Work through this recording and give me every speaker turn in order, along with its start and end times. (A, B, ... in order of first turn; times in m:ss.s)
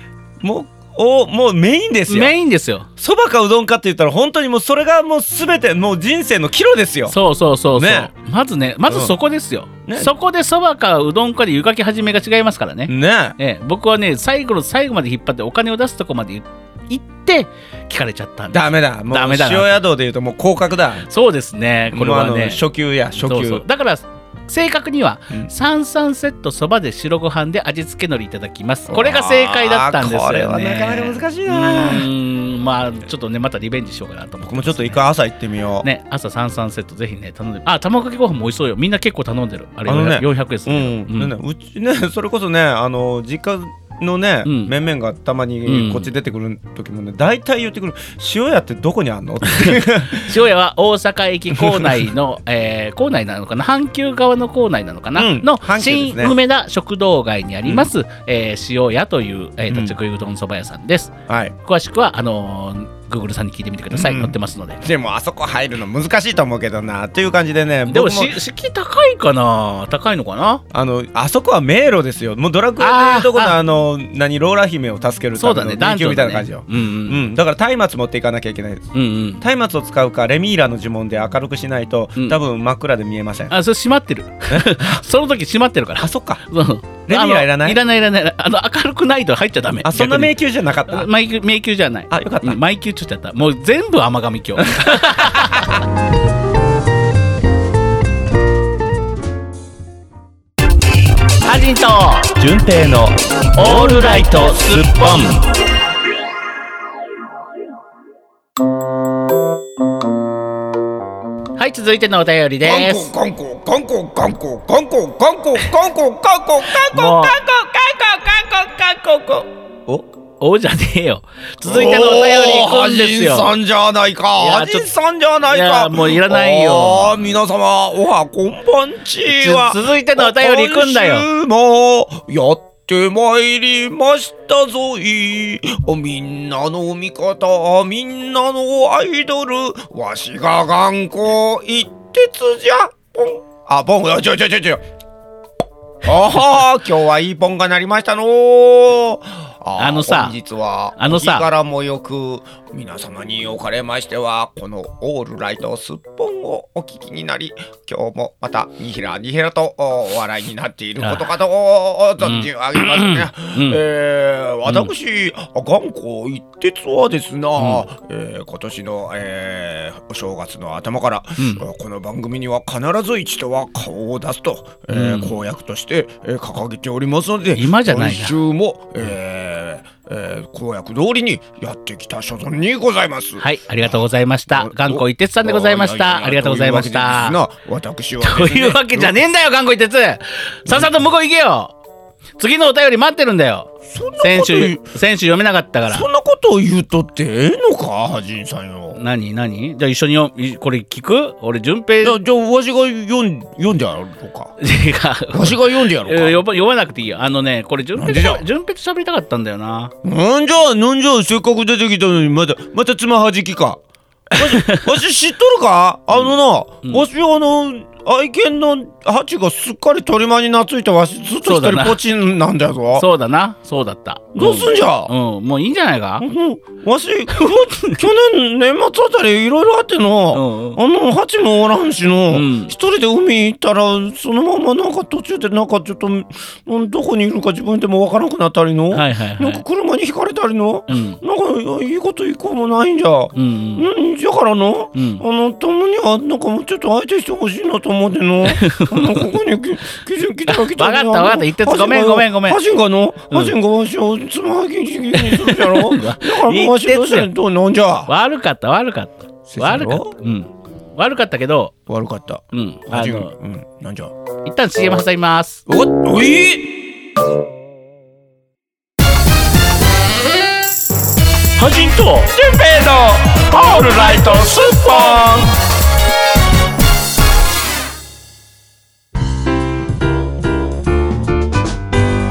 0:00.4-0:02.3 A
0:02.1-0:02.9 B
0:03.0-0:07.2 A
0:07.1-0:19.8 B
0:07.8-0:08.1 A
0:08.9-0:09.1 A
0:09.9-0:10.1 A
0:12.9-0:13.4 A
0:18.5-0:21.1 A
0:21.1-0:22.6 B
0:21.9-0:23.6 A
0:23.2-0:35.0 B
0:28.9-0:32.1 A
0:34.4-0:35.9 A
0:35.8-0:41.3 B
0:39.9-0:50.4 A
0:44.4-0:44.7 B
0:45.7-0:46.1 B
0:49.4-1:04.8 B
0:51.6-0:52.1 A
0:55.2-0:56.4 A
0:59.7-1:00.0 A
1:01.3-1:01.6 A
1:03.9-1:08.4 A
1:07.9-1:10.6 B
1:10.7-1:23.6 A
1:12.8-1:13.6 B
1:15.4-1:17.2 B
1:18.9-1:19.4 B
1:23.5-1:35.8 B
1:24.5-1:25.0 A
1:26.0-1:26.4 A
1:27.1-1:27.8 A
1:29.8-1:31.1 A
1:32.1-1:32.6 A
1:34.6-1:35.8 A
1:41.4-1:42.3 B
1:42.4-1:45.5 A
1:43.6-1:45.3 B
1:51.6-1:53.1 B
1:52.6-2:00.0 A
1:56.7-1:57.4 B
2:00.4-2:03.6 B
2:01.6-2:24.8 A
2:04.4-2:04.9 B
2:05.5-2:07.2 B
2:09.3-2:11.3 B
2:26.0-3:09.2 A
2:29.8-2:30.4 B
2:31.0-2:31.5 B
2:41.0-2:41.3 B
2:42.2-2:43.8 B
2:44.7-2:44.9 B
2:47.6-2:47.8 B
2:51.4-2:51.6 B
2:54.9-2:55.4 B
2:57.6-2:58.4 B
3:03.4-3:07.4 B
3:08.2-3:11.7 B
3:12.4-3:16.1 B
3:13.9-3:14.9 A
3:15.9-3:19.0 A
3:19.0-3:22.2 B
3:22.0-3:24.6 A
3:24.6-3:29.9 B
3:25.3-3:26.4 A
3:28.0-3:28.4 A
3:30.0-3:33.8 A
3:34.3-3:43.1 A
3:34.4-3:34.9 B
3:41.4-3:42.0 B
3:43.0-3:46.2 B
3:44.4-3:45.1 A
3:46.2-4:18.1 A
3:47.3-3:48.0 B
3:50.3-3:50.8 B
3:52.3-3:52.7 B
3:58.9-3:59.6 B
4:00.9-4:01.2 B
4:03.4-4:03.8 B
4:05.0-4:05.2 B
4:08.4-4:09.3 B
4:10.5-4:12.6 B
4:15.1-4:17.3 B
4:18.1-4:21.7 B
4:19.5-4:20.1 A
4:21.9-4:24.1 A
4:22.5-4:23.3 B
4:24.4-4:25.6 B
4:25.7-4:26.8 A
4:31.6-4:32.3 B
4:32.3-4:35.5 A
4:33.5-4:35.4 B